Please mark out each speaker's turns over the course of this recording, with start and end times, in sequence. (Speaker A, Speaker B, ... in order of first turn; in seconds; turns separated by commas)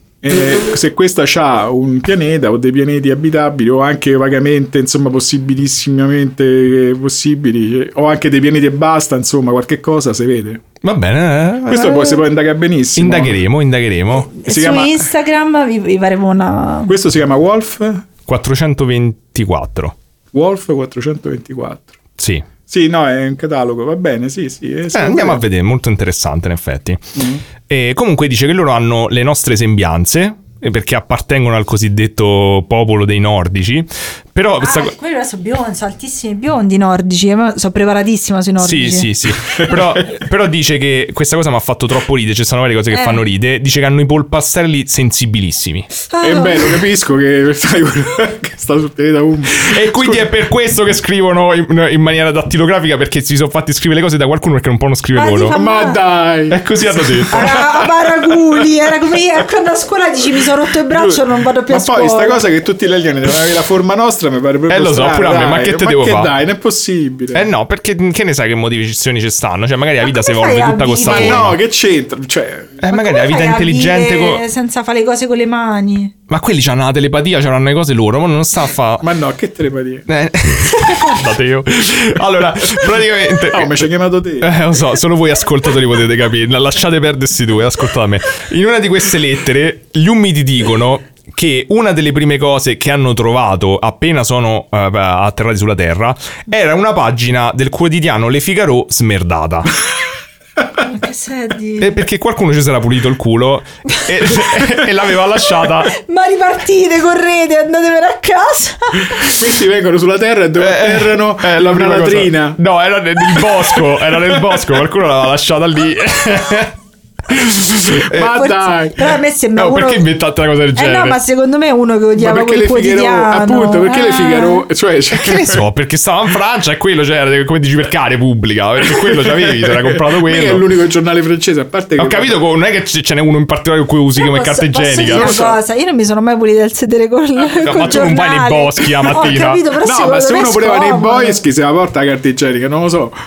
Speaker A: 0.2-10.6, Speaker B: 10.8-12.1, Speaker A: 11.7-13.4, Speaker B: 13.0-14.3, Speaker C: 14.3-16.9, Speaker A: 14.4-15.1, Speaker A: 16.9-18.1, Speaker B: 18.3-20.0, Speaker A: 20.3-21.9, Speaker B: 22.2-22.5, Speaker A: 22.7-25.4, Speaker B: 24.9-34.9, Speaker A: 27.1-27.4, Speaker C: 34.6-39.1, Speaker B: 38.6-45.9, Speaker A: 39.6-40.0, Speaker C: 42.9-43.2, Speaker C: 46.1-46.7, Speaker A: 46.2-50.3, Speaker B: 49.5-55.6, Speaker C: 55.1-56.0, Speaker A: 55.5-58.6, Speaker B: 56.5-57.6, Speaker C: 57.3-62.4, Speaker A: 60.9-67.5, Speaker B: 64.7-66.3, Speaker B: 67.3-71.6, Speaker C: 70.0-71.5, Speaker A: 71.1-72.8, Speaker B: 72.8-74.4, Speaker C: 72.9-76.1, Speaker B: 76.3-79.1, Speaker A: 79.0-80.1, Speaker B: 80.1-83.9, Speaker A: 83.4-84.6, Speaker B: 84.4-99.7, Speaker C: 100.8-101.9, Speaker B: 101.8-105.9, Speaker C: 105.9-109.3, Speaker A: 109.2-112.6, Speaker B: 110.6-116.8, Speaker A: 113.4-114.6, Speaker B: 117.3-118.4, Speaker A: 118.1-119.1, Speaker C: 118.1-120.1, Speaker B: 119.6-121.2, Speaker C: 120.8-124.7, Speaker A: 122.2-125.6, Speaker B: 125.1-130.6, Speaker A: 128.8-132.4, Speaker B: 132.0-135.4, Speaker C: 134.2-141.4, Speaker A: 135.0-135.6, Speaker B: 137.6-139.6, Speaker A: 139.8-143.1